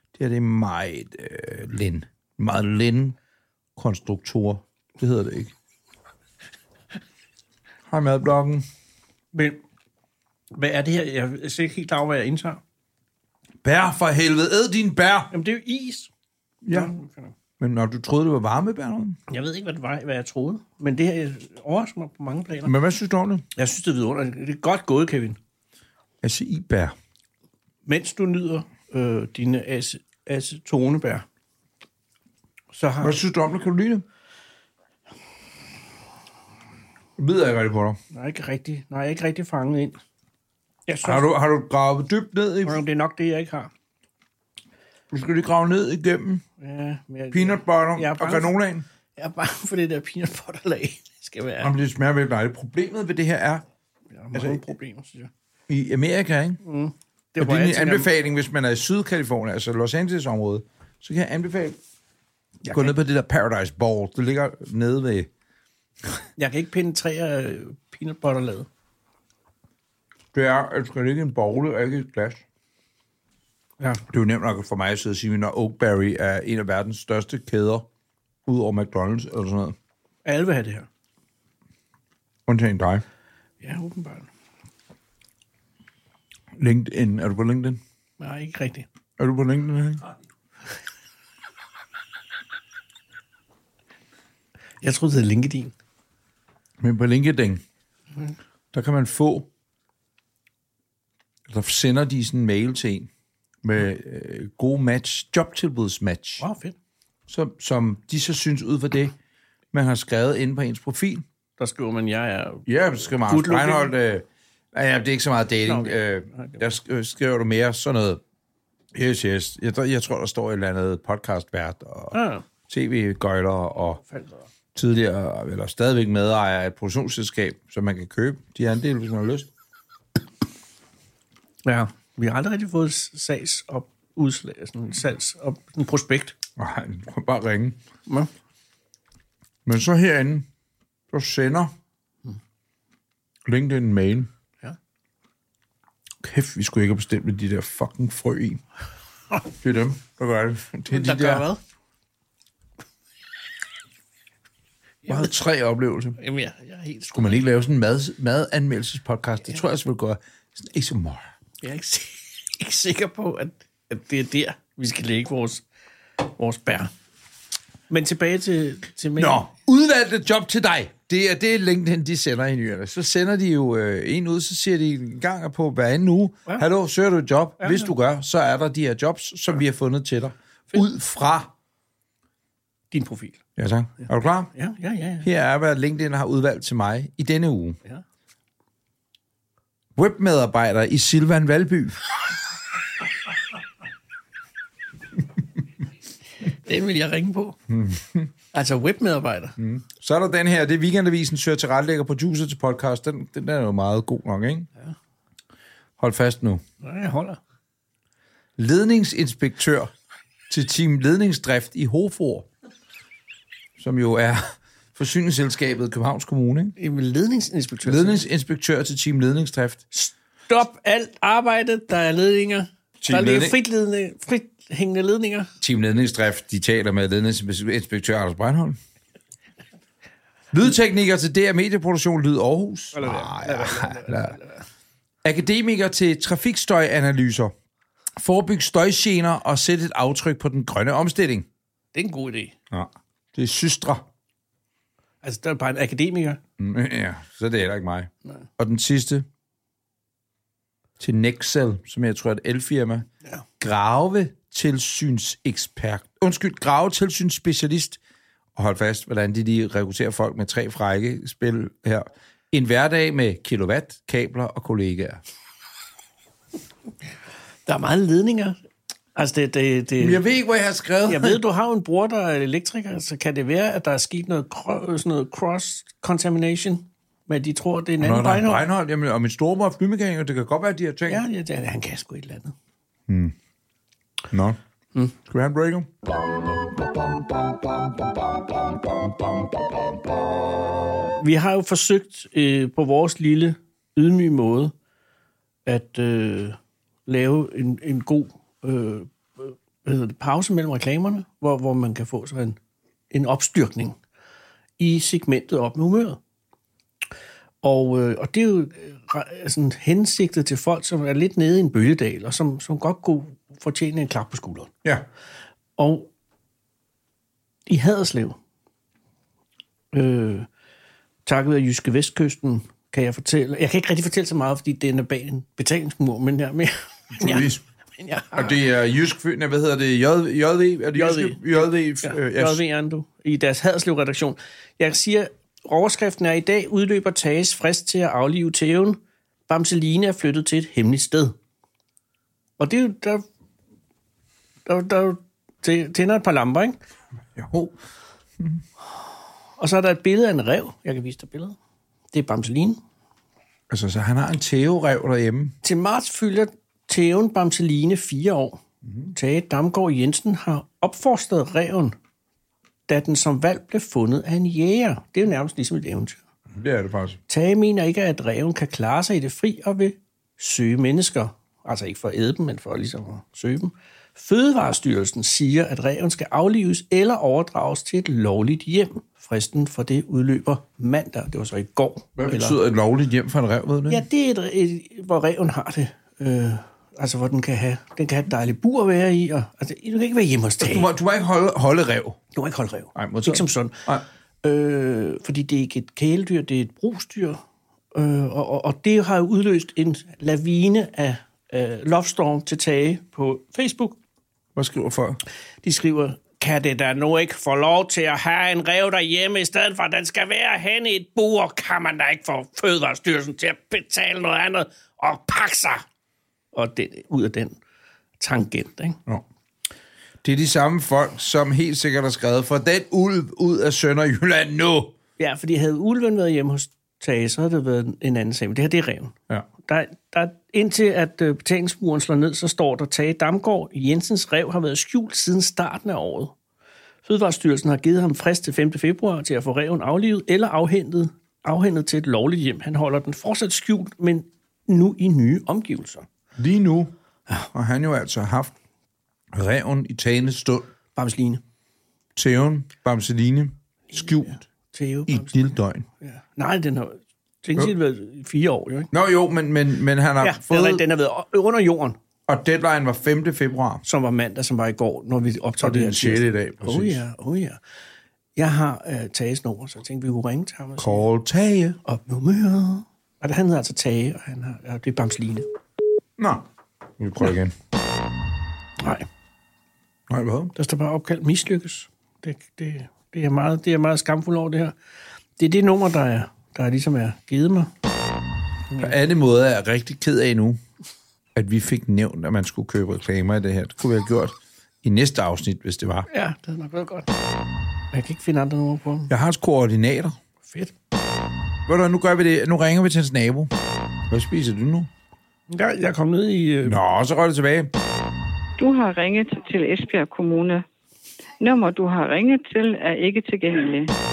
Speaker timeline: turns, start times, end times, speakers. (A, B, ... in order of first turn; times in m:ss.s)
0:00.1-0:03.2 A
0:03.8-0:05.5 A
0:07.9-0:08.6 A
0:09.3-0:09.6 B
0:10.5-0:12.6 B
0:13.6-0:15.3 A
0:15.3-0:16.1 B
0:16.6-0:16.9 A
0:16.7-0:17.3 B
0:17.6-0:19.2 A
0:19.3-0:22.7 B
0:22.6-0:23.4 A
0:23.6-0:25.4 B
0:26.2-0:26.9 A
0:27.8-0:31.2 B
0:32.7-0:33.2 B
0:33.0-0:34.0 A
0:37.2-0:38.0 A
0:38.1-0:40.0 B
0:40.9-0:41.2 B
0:41.0-0:42.8 A
0:42.6-0:43.7 B
0:45.1-0:46.4 A
0:46.6-0:48.6 B
0:47.3-0:48.8 A
0:49.2-0:51.7 B
0:51.6-0:53.6 A
0:54.1-0:55.3 B
0:54.3-0:54.6 A
0:55.7-0:56.6 A
0:56.6-0:58.1 B
0:57.4-1:01.8 A
1:02.6-1:03.0 B
1:02.7-1:05.3 A
1:06.4-1:08.7 B
1:10.3-1:12.4 A
1:13.8-1:14.0 B
1:14.1-1:17.9 A
1:18.4-1:19.8 A
1:20.2-1:20.9 B
1:22.5-1:23.0 A
1:23.6-1:24.3 B
1:26.6-1:27.8 A
1:28.2-1:28.8 B
1:29.2-1:30.0 A
1:34.8-1:35.7 B
1:36.8-1:37.6 A
1:38.7-1:39.5 A
1:41.5-1:43.1 A
1:43.6-1:46.4 A
1:46.4-1:46.8 B
1:47.3-1:49.2 A
1:49.7-1:51.2 A
1:51.6-1:53.9 B
1:52.7-1:58.2 A
1:55.6-1:56.6 B
1:58.9-2:04.0 A
2:02.1-2:02.4 B
2:04.1-2:04.4 B
2:04.7-2:09.5 A
2:11.6-2:16.4 B
2:16.6-2:17.8 A
2:19.6-2:20.5 A
2:21.1-2:21.7 A
2:23.4-2:24.3 A
2:26.2-2:28.6 A
2:29.5-2:31.4 A
2:30.9-2:31.6 B
2:35.1-2:35.3 B
2:35.1-2:36.2 A
2:36.2-2:37.4 B
2:37.1-2:41.3 A
2:41.6-2:45.6 B
2:46.2-2:46.9 B
2:47.9-2:49.4 B
2:49.2-3:01.5 A
2:57.6-2:57.9 B
3:02.9-3:03.4 B
3:03.6-3:04.5 A
3:04.5-3:05.3 B
3:05.2-3:07.8 A
3:09.9-3:12.1 A
3:16.4-3:17.6 B
3:17.7-3:18.3 A
3:18.5-3:19.6 B
3:19.6-3:24.7 A
3:26.0-3:26.6 A
3:26.8-3:27.4 B
3:28.6-3:29.9 A
3:30.5-3:32.5 A
3:33.8-3:36.8 A
3:36.8-3:38.2 B
3:37.8-3:39.8 A
3:39.9-3:45.5 B
3:43.0-3:43.6 A
3:45.6-3:48.8 A
3:50.5-3:54.4 A
3:52.9-3:54.6 B
3:55.2-3:57.5 A
3:58.2-4:01.5 A
4:01.9-4:02.5 B
4:02.7-4:04.0 A
4:05.2-4:06.4 B
4:06.6-4:09.2 A
4:11.0-4:13.1 A
4:13.6-4:18.0 A
4:18.6-4:25.2 A
4:27.6-4:28.6 B
4:29.2-4:30.2 B
4:30.0-4:31.4 A
4:31.1-4:38.6 B
4:38.0-4:41.2 A
4:41.1-4:42.5 B
4:43.1-4:43.3 A
4:44.3-4:44.6 A
4:45.2-4:45.9 A
4:48.9-4:49.6 A
4:51.2-4:54.7 B
4:55.6-5:02.6 B
5:03.1-5:04.0 B
5:04.8-5:06.2 B
5:07.6-5:14.7 B
5:15.8-5:16.1 B
5:17.7-5:18.4 B
5:19.9-5:20.5 B
5:21.2-5:28.6 B
5:27.2-5:27.6 A
5:28.3-5:32.6 A
5:30.9-5:41.4 B
5:42.6-5:43.2 B
5:44.6-5:46.8 B
5:47.4-5:47.8 A
5:49.6-5:51.6 B
5:52.1-5:52.8 B
5:53.7-5:55.5 A
5:55.6-5:58.6 B
5:58.8-5:59.1 A
5:59.1-6:02.0 B
6:02.9-6:06.2 B
6:06.5-6:07.2 A
6:07.3-6:22.6 B
6:22.2-6:24.0 A
6:23.9-6:30.9 B
6:30.6-6:32.2 A
6:32.3-6:33.8 B
6:32.9-6:34.0 A
6:34.4-6:37.4 B
6:37.9-6:44.0 B
6:44.6-6:45.2 A
6:45.6-6:55.8 B
6:56.5-6:57.6 B
6:58.2-6:59.0 B
7:00.2-7:04.9 A
7:05.2-7:16.3 B
7:17.0-7:26.0 B
7:26.4-7:26.9 A
7:27.5-7:28.5 A
7:29.3-7:30.7 A
7:30.9-7:31.4 B
7:32.2-7:34.4 A
7:33.9-7:35.4 B
7:35.1-7:35.8 A
7:36.0-7:38.9 B
7:38.9-7:40.8 A
7:40.2-7:42.0 B
7:42.3-7:43.8 A
7:43.8-7:47.6 B
7:45.6-7:47.0 A
7:48.4-7:51.0 B
7:50.8-7:51.8 A
7:51.8-7:55.4 B
7:56.2-7:56.4 A
7:57.0-7:57.5 A
7:58.8-7:59.1 B
8:00.1-8:00.5 A
8:00.6-8:04.7 B
8:05.4-8:07.7 B
8:08.8-8:10.6 A
8:11.3-8:16.1 A
8:16.1-8:17.1 B
8:17.9-8:19.1 B
8:19.1-8:20.2 A
8:20.4-8:20.7 B
8:21.7-8:23.5 A
8:24.1-8:24.9 A
8:25.5-8:26.8 B
8:26.6-8:27.7 A
8:28.6-8:30.6 C
8:31.4-8:33.9 C